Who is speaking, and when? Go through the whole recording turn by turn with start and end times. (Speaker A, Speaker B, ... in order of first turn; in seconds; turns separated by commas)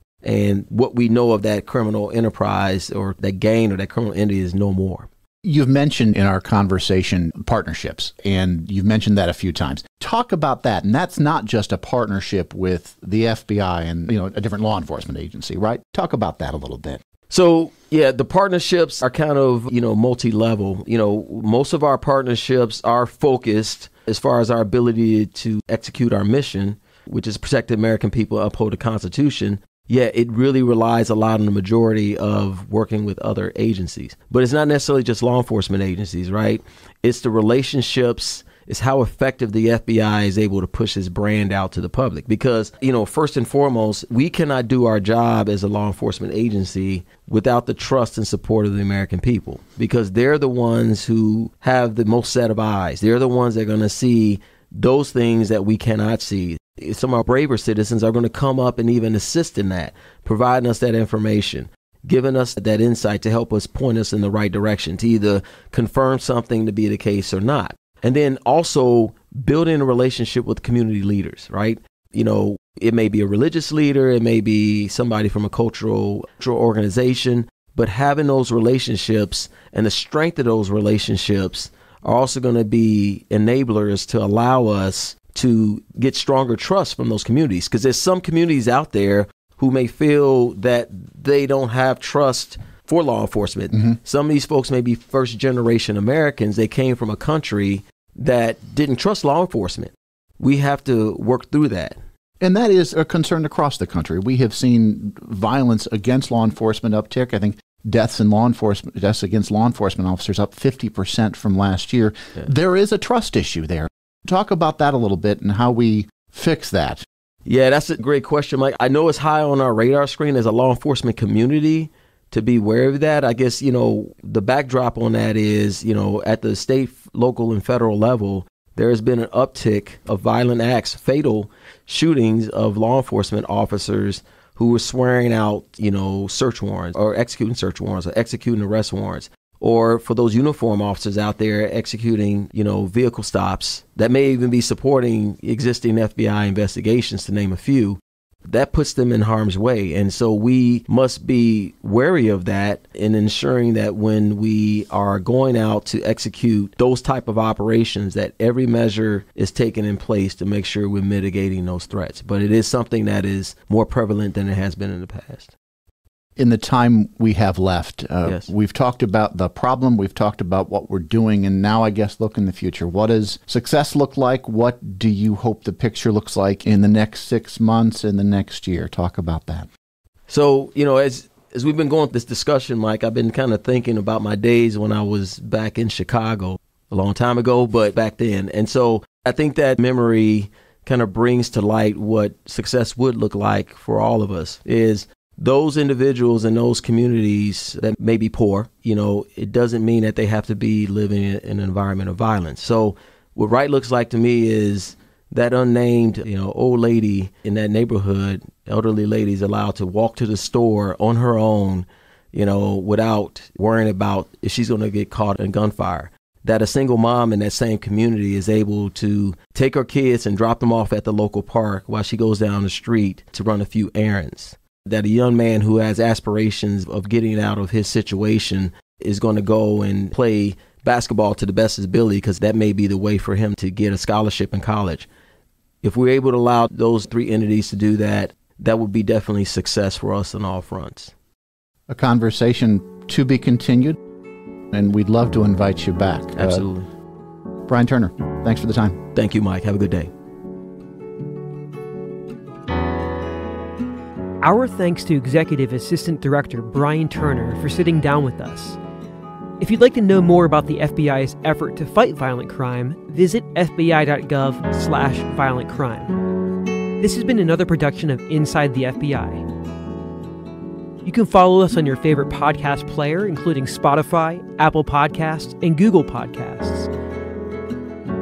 Speaker A: 0.2-5.1, Speaker B: 5.4-17.0, Speaker A: 17.3-102.0, Speaker B: 102.4-117.0, Speaker A: 117.5-165.5, Speaker B: 166.4-179.7, Speaker A: 168.2-168.5, Speaker A: 180.3-235.1, Speaker A: 235.8-241.1, Speaker B: 241.9-244.0, Speaker B: 244.7-246.7, Speaker A: 246.3-246.9, Speaker B: 247.7-249.0, Speaker A: 249.1-250.1, Speaker C: 254.4-258.8, Speaker C: 259.6-266.1, Speaker C: 267.0-269.4, Speaker C: 271.0-276.9